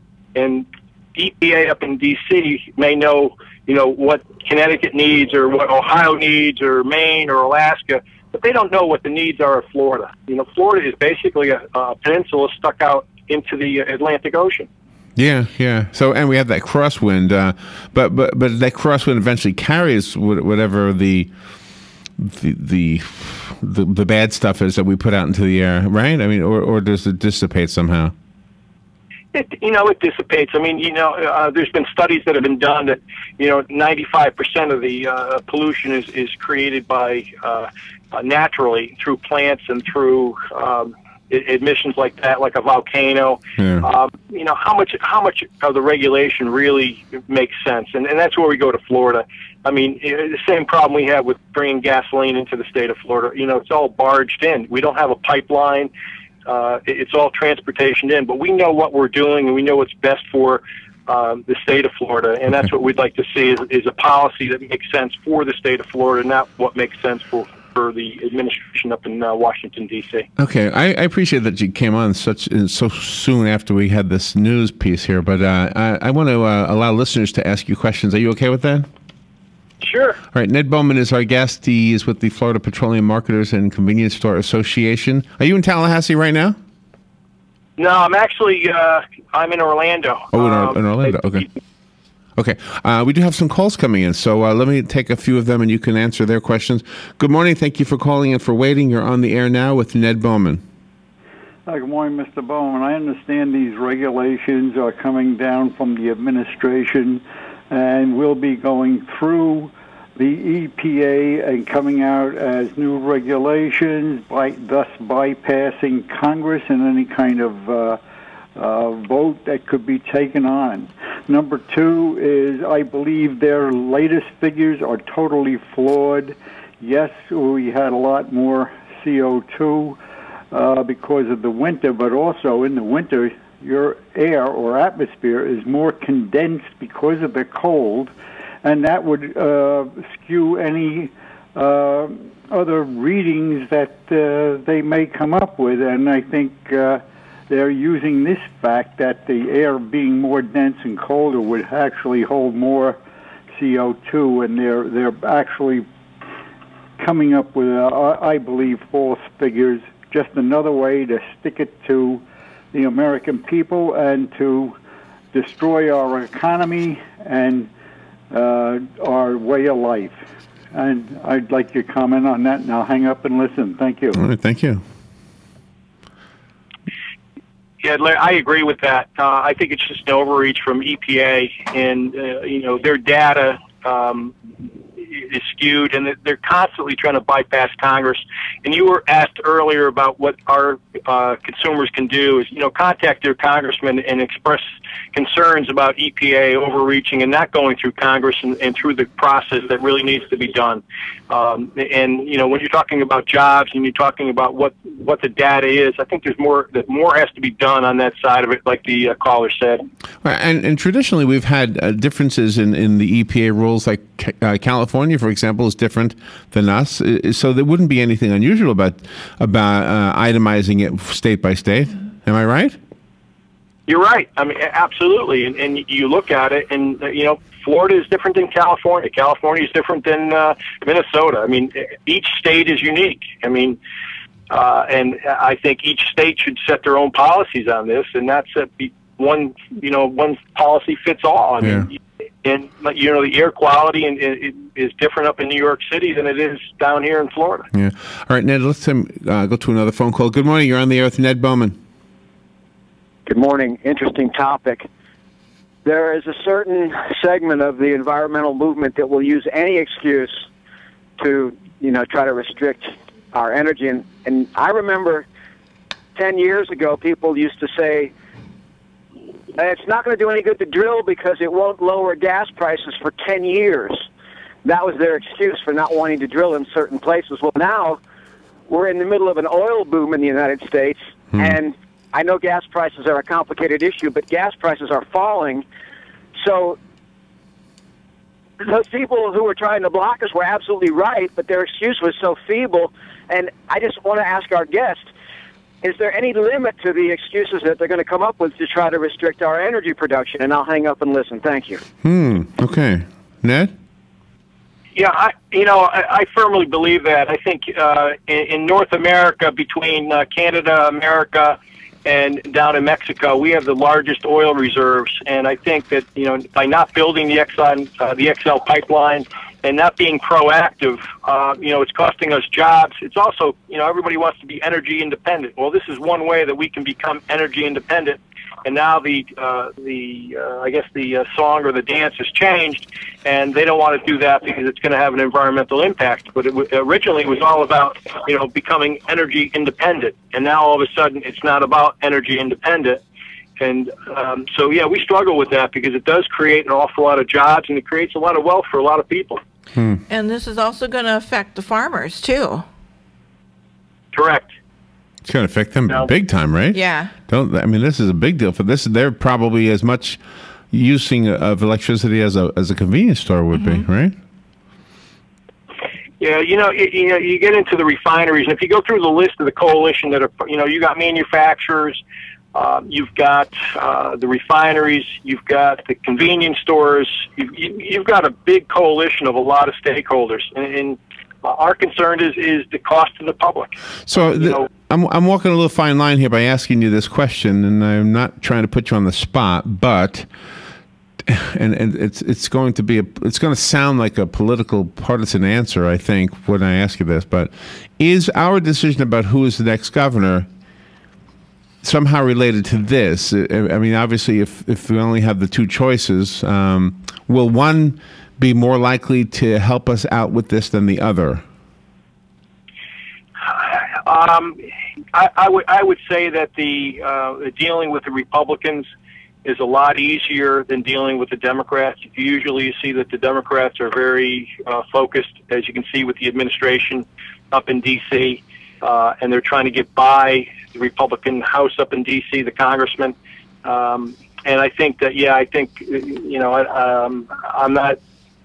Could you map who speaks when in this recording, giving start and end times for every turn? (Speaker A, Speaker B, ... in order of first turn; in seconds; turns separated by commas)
Speaker A: 0.3-14.7, Speaker B: 15.2-21.3, Speaker B: 22.2-28.1, Speaker A: 29.3-55.9, Speaker B: 43.6-43.9, Speaker A: 56.5-70.3, Speaker B: 70.4-78.9, Speaker A: 79.8-80.2, Speaker B: 80.3-86.6, Speaker A: 87.8-91.1, Speaker B: 90.3-91.5, Speaker B: 92.3-100.6, Speaker C: 101.7-118.0, Speaker C: 118.6-130.0, Speaker C: 130.5-138.1, Speaker C: 138.6-153.0, Speaker C: 153.5-155.8, Speaker C: 157.0-164.8, Speaker C: 165.3-167.7, Speaker C: 168.3-170.2, Speaker C: 170.7-174.2, Speaker B: 174.1-174.8, Speaker A: 177.8-184.3, Speaker A: 185.1-209.8, Speaker B: 210.2-222.8, Speaker A: 223.9-233.8, Speaker A: 234.5-247.7, Speaker B: 241.6-241.9, Speaker B: 247.7-251.8, Speaker D: 253.2-254.9, Speaker D: 255.8-260.4, Speaker D: 261.2-265.2, Speaker D: 266.1-268.1, Speaker D: 269.6-274.1, Speaker D: 274.6-278.0, Speaker D: 278.7-285.6, Speaker D: 286.4-286.8, Speaker D: 288.6-295.1, Speaker D: 295.8-301.8, Speaker B: 302.0-303.7, Speaker A: 304.9-343.0, Speaker A: 343.6-349.4, Speaker B: 349.7-350.0, Speaker E: 350.1-352.6, Speaker A: 354.1-354.5, Speaker B: 355.2-360.2, Speaker E: 356.7-357.1, Speaker B: 360.7-364.1, Speaker E: 363.5-363.8, Speaker A: 366.2-372.0, Speaker A: 372.5-384.7, Speaker B: 384.1-390.3, Speaker B: 391.2-400.5, Speaker B: 401.8-411.4, Speaker A: 413.4-414.6, Speaker A: 415.1-418.9, Speaker A: 419.4-438.0